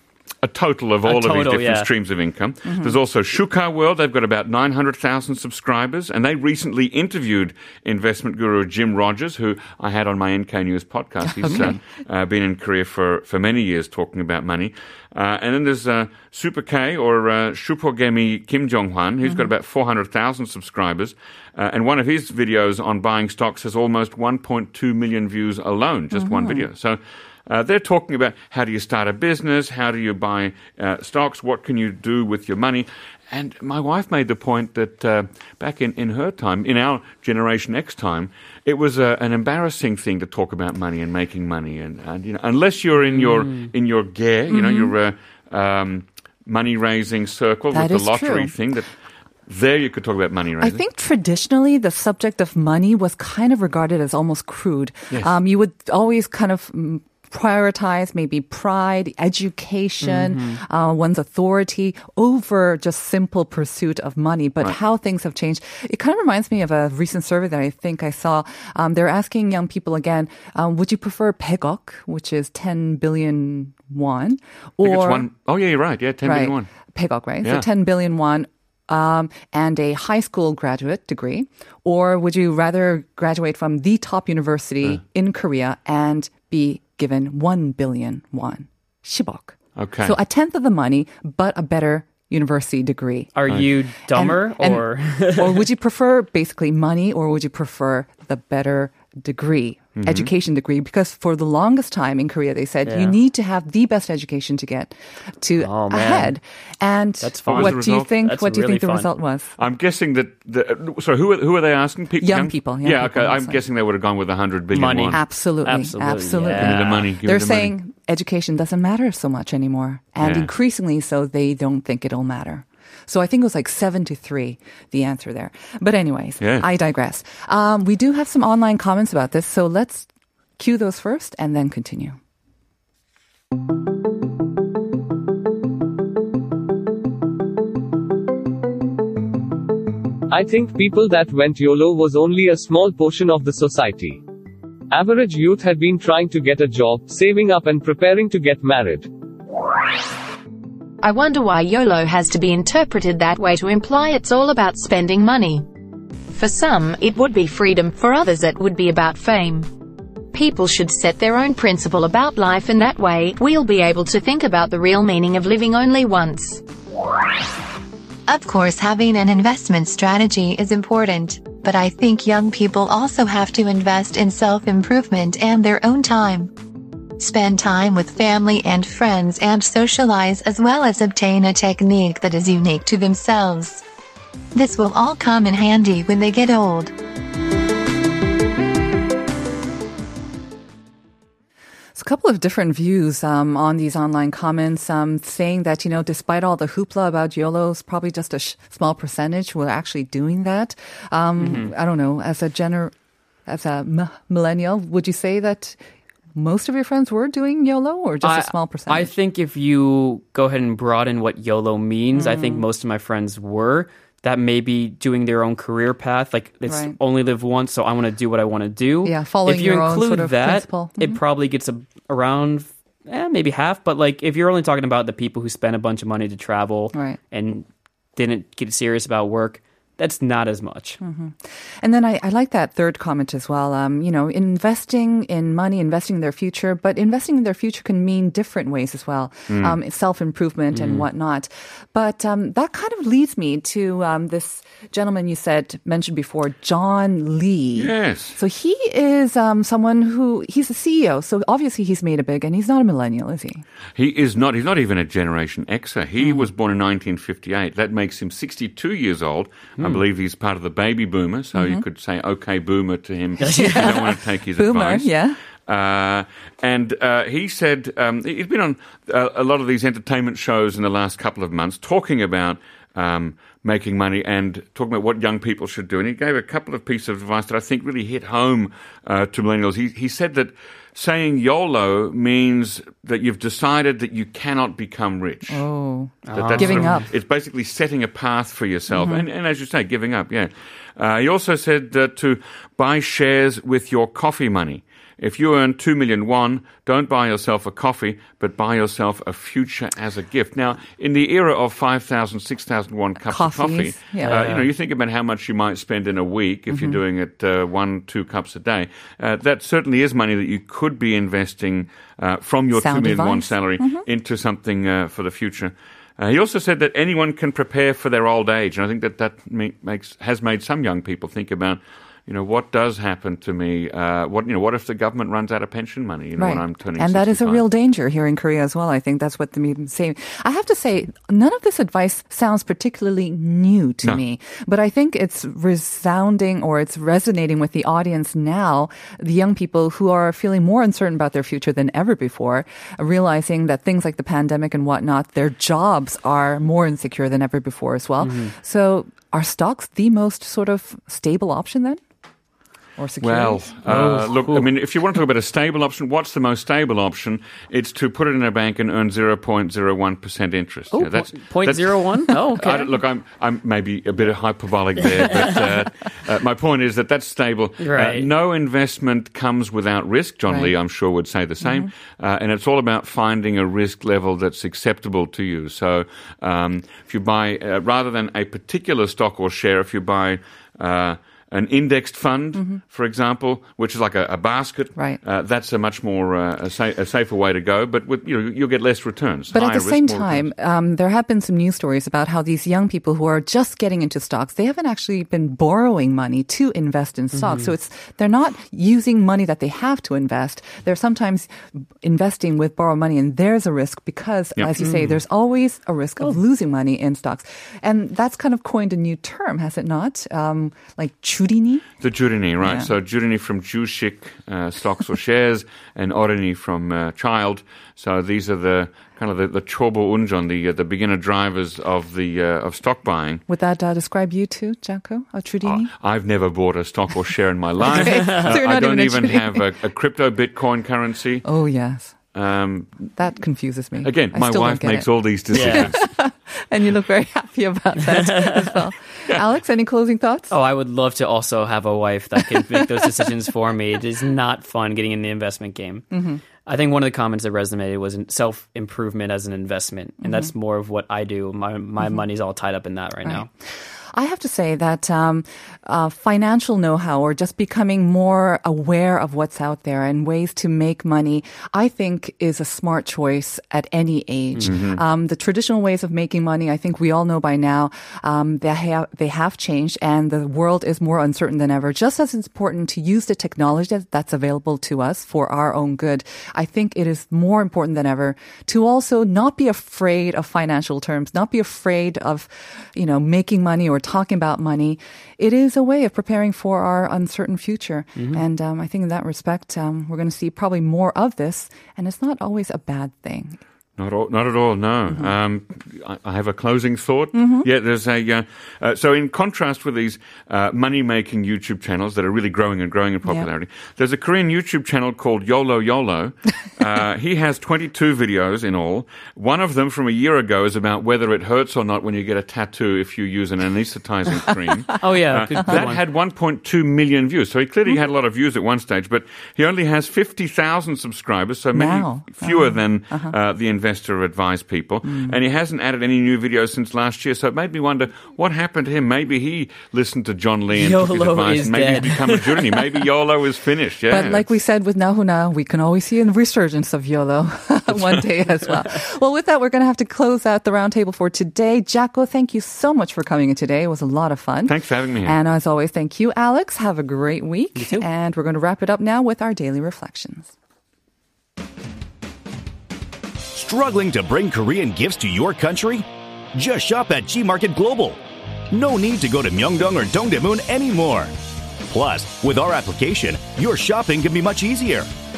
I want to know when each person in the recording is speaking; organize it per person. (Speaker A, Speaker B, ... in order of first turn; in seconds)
Speaker A: 0.4-48.9, 49.5-50.8, 55.1-55.4, 74.8-76.7, 89.8-90.2, 100.0-100.3, 107.5-108.1, 109.6-115.2, 116.5-117.7, 120.2-120.5, 126.4-126.7, 239.5-239.8, 247.8-248.4, 254.0-285.6, 286.3-327.6, 353.2-390.5, 412.0-423.4, 425.6-431.4, 432.4-433.1, 434.0-436.1, 464.6-465.0, 494.0-534.5, 537.9-538.2, 544.7-545.4
Speaker B: 1.1-1.9, 43.1-43.7, 60.0-60.6, 93.3-95.7, 102.9-103.2, 105.6-106.3, 107.2-109.1, 114.7-116.9, 201.4-201.7, 208.2-231.0, 240.7-241.1, 263.4-263.9, 286.2-287.0, 304.2-304.7, 348.2-348.5, 353.9-354.7, 360.9-362.9, 367.8-368.3, 397.3-397.7, 404.8-405.2, 435.5-435.9, 438.2-438.5, 440.5-446.1, 446.6-453.5, 488.2-488.4, 514.9-516.0, 530.7-532.8, 547.8-548.1
Speaker C: 2.6-3.0, 11.2-11.8, 26.1-26.7, 44.5-44.9, 47.7-48.5, 50.6-75.3, 76.2-93.3, 94.1-109.5, 112.2-113.6, 115.1-132.2, 191.9-202.9, 203.5-205.8, 206.3-209.1, 212.1-212.7, 216.7-217.0, 219.0-221.2, 226.9-227.2, 231.0-253.6, 261.5-261.8, 263.5-265.4, 285.5-287.1, 288.9-289.2, 303.2-304.4, 306.7-307.0, 312.7-314.0, 326.4-352.0, 353.0-354.1, 370.5-370.7, 371.6-371.9, 389.5-411.9, 412.6-412.9, 423.5-425.9, 427.8-429.6, 431.4-432.2, 433.1-440.5, 442.5-443.1, 446.1-446.4, 450.2-450.5, 453.2-493.6, 497.3-497.7, 521.7-523.4, 525.0-525.4, 534.1-550.5
Speaker D: 140.3-144.2, 144.9-149.1
Speaker E: 151.0-155.7, 156.3-159.7, 160.3-166.6
Speaker F: 168.3-176.5, 177.2-183.8, 184.5-186.9
Speaker G: 553.5-561.3, 561.9-565.1